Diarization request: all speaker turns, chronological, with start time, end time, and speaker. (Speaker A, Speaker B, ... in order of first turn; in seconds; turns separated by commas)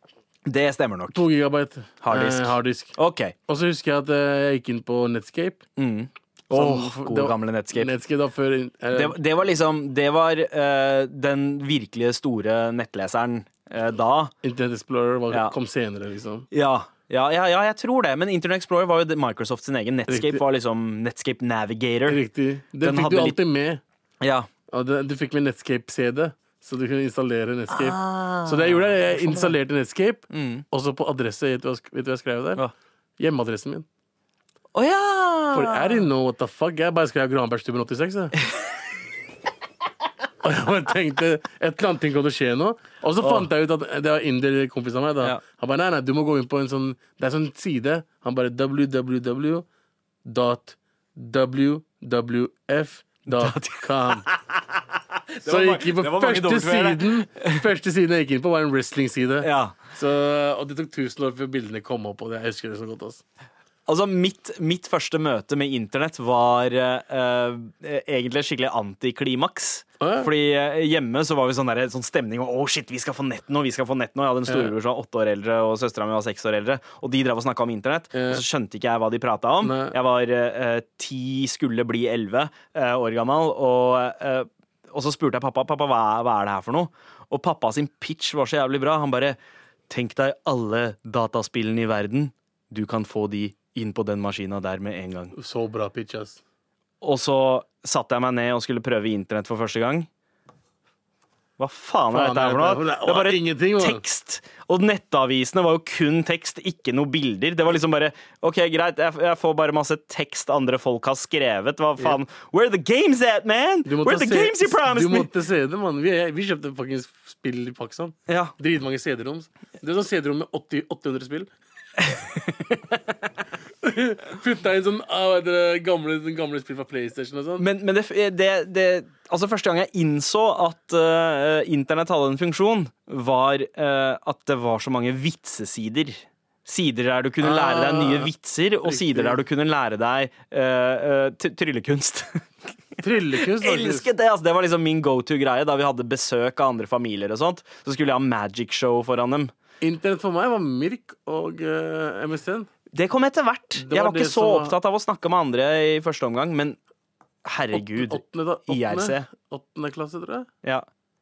Speaker A: 0.5-1.2, Speaker B: 1.1-2.9, Speaker A: 2.0-3.3, Speaker B: 3.5-5.7, Speaker A: 5.8-7.9, Speaker B: 6.5-9.2, Speaker A: 8.9-14.3, Speaker B: 14.4-16.5, Speaker A: 16.5-22.2, Speaker B: 20.1-20.4, Speaker B: 22.1-23.8, Speaker A: 22.8-23.4, Speaker A: 24.2-24.5, Speaker B: 24.7-32.6, Speaker A: 27.7-29.5, Speaker A: 30.3-30.6, Speaker B: 33.2-33.9, Speaker A: 34.7-36.1, Speaker B: 35.5-38.3, Speaker B: 40.4-49.7, Speaker B: 50.2-54.2, Speaker A: 53.3-57.7, Speaker B: 55.5-63.2, Speaker A: 59.4-59.8, Speaker A: 63.9-89.4, Speaker B: 70.0-70.3, Speaker B: 74.5-74.7, Speaker B: 78.1-78.4, Speaker B: 79.6-80.0, Speaker A: 89.9-95.3, Speaker B: 95.3-96.4, Speaker A: 97.0-100.1, Speaker A: 101.6-115.3, Speaker B: 102.1-104.0, Speaker B: 113.8-121.5, Speaker A: 118.3-118.5, Speaker A: 122.0-122.8, Speaker B: 123.8-127.7, Speaker A: 127.6-142.4, Speaker B: 137.4-138.3, Speaker B: 138.8-139.4, Speaker B: 143.0-144.1, Speaker A: 143.5-149.5, Speaker B: 149.8-152.7, Speaker A: 152.9-156.8, Speaker B: 153.8-154.8, Speaker A: 157.4-159.3, Speaker B: 157.7-160.5